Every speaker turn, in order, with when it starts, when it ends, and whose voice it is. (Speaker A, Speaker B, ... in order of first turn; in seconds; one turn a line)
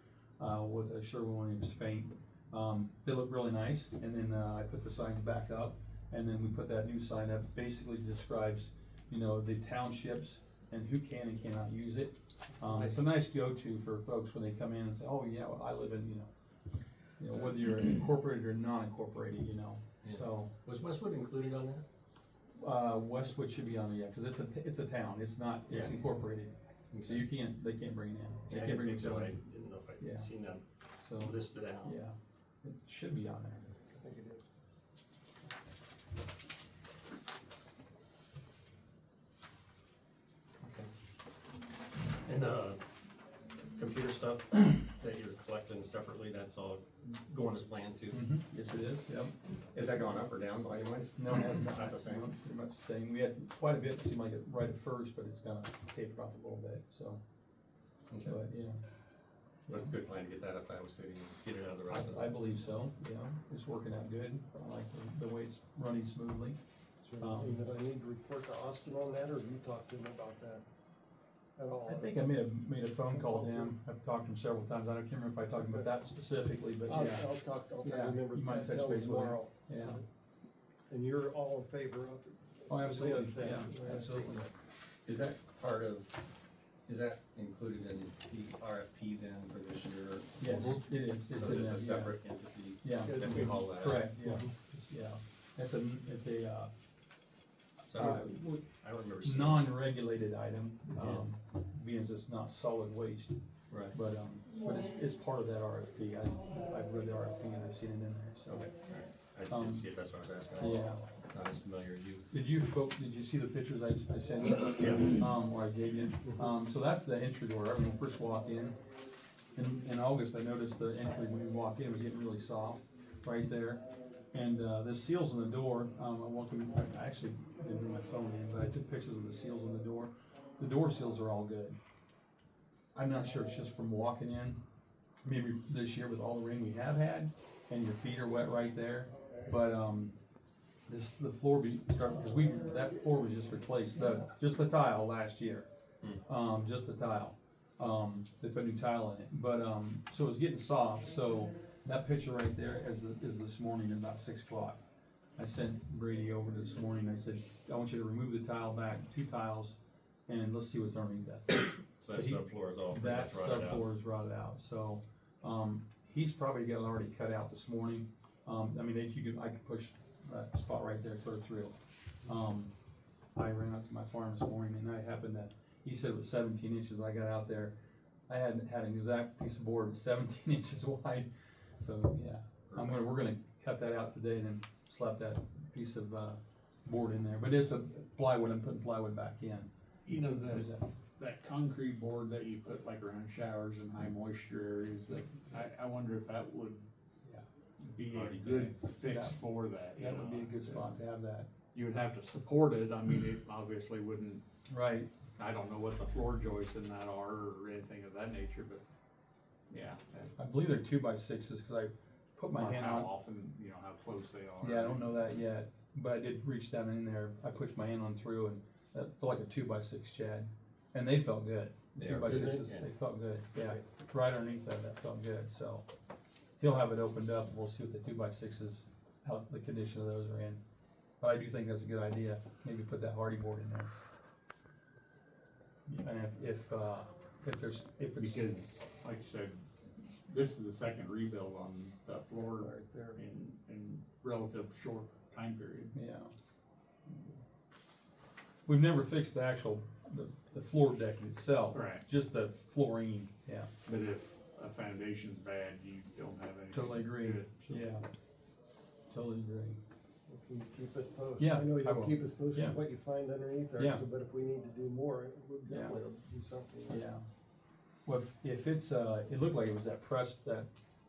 Speaker A: 0.4-16.3
Speaker A: 17.2-20.5
Speaker B: 20.0-21.8
Speaker A: 22.5-26.5
Speaker B: 25.7-25.9
Speaker B: 26.9-27.3
Speaker A: 27.0-29.4
Speaker B: 28.5-30.6
Speaker A: 30.0-30.3
Speaker A: 31.0-33.7
Speaker B: 31.2-32.0
Speaker C: 33.9-34.4
Speaker B: 40.6-40.9
Speaker B: 42.2-42.8
Speaker B: 43.7-52.3
Speaker A: 48.1-49.3
Speaker A: 51.2-57.2
Speaker B: 58.1-58.4
Speaker A: 58.2-58.8
Speaker A: 59.7-59.9
Speaker B: 59.7-62.3
Speaker A: 61.9-66.6
Speaker C: 67.0-70.6
Speaker A: 67.2-67.6
Speaker C: 71.5-72.2
Speaker A: 71.8-77.3
Speaker C: 73.1-73.7
Speaker C: 75.6-75.9
Speaker C: 76.8-80.0
Speaker A: 77.8-80.0
Speaker C: 80.9-84.5
Speaker A: 82.7-84.5
Speaker B: 85.0-86.2
Speaker B: 86.9-94.1
Speaker A: 90.4-92.2
Speaker A: 92.8-96.7
Speaker C: 93.0-94.5
Speaker B: 97.9-99.7
Speaker A: 97.9-98.6
Speaker A: 99.2-103.3
Speaker B: 101.0-101.2
Speaker B: 103.7-104.0
Speaker A: 103.9-108.7
Speaker B: 108.6-112.3
Speaker A: 109.5-109.8
Speaker A: 110.5-111.0
Speaker A: 112.3-118.8
Speaker B: 114.6-115.2
Speaker A: 119.5-131.8
Speaker A: 132.9-134.6
Speaker A: 135.2-140.1
Speaker A: 140.9-145.7
Speaker A: 146.2-154.8
Speaker A: 155.4-159.8
Speaker A: 160.3-172.7
Speaker B: 162.0-163.8
Speaker A: 173.3-177.7
Speaker A: 178.3-189.7
Speaker B: 182.7-183.0
Speaker D: 190.1-196.9
Speaker A: 190.2-190.8
Speaker D: 197.8-201.0
Speaker B: 198.1-198.6
Speaker A: 198.5-199.4
Speaker A: 200.0-201.5
Speaker D: 201.7-204.4
Speaker A: 204.7-205.1
Speaker D: 205.3-208.8
Speaker D: 209.7-210.3
Speaker A: 210.4-213.1
Speaker D: 212.5-215.1
Speaker A: 214.6-225.8
Speaker B: 222.0-222.9
Speaker C: 222.2-222.7
Speaker A: 226.6-230.6
Speaker A: 231.2-233.9
Speaker A: 235.9-238.5
Speaker D: 238.2-239.6
Speaker D: 240.3-245.9
Speaker C: 242.3-243.2
Speaker A: 245.9-246.3
Speaker A: 248.7-253.7
Speaker D: 251.7-252.0
Speaker D: 253.8-257.9
Speaker A: 256.7-258.0
Speaker A: 259.1-259.8
Speaker C: 260.3-267.0
Speaker A: 261.4-262.8
Speaker A: 263.8-264.0
Speaker A: 265.7-266.0
Speaker A: 266.9-267.2
Speaker A: 268.1-270.7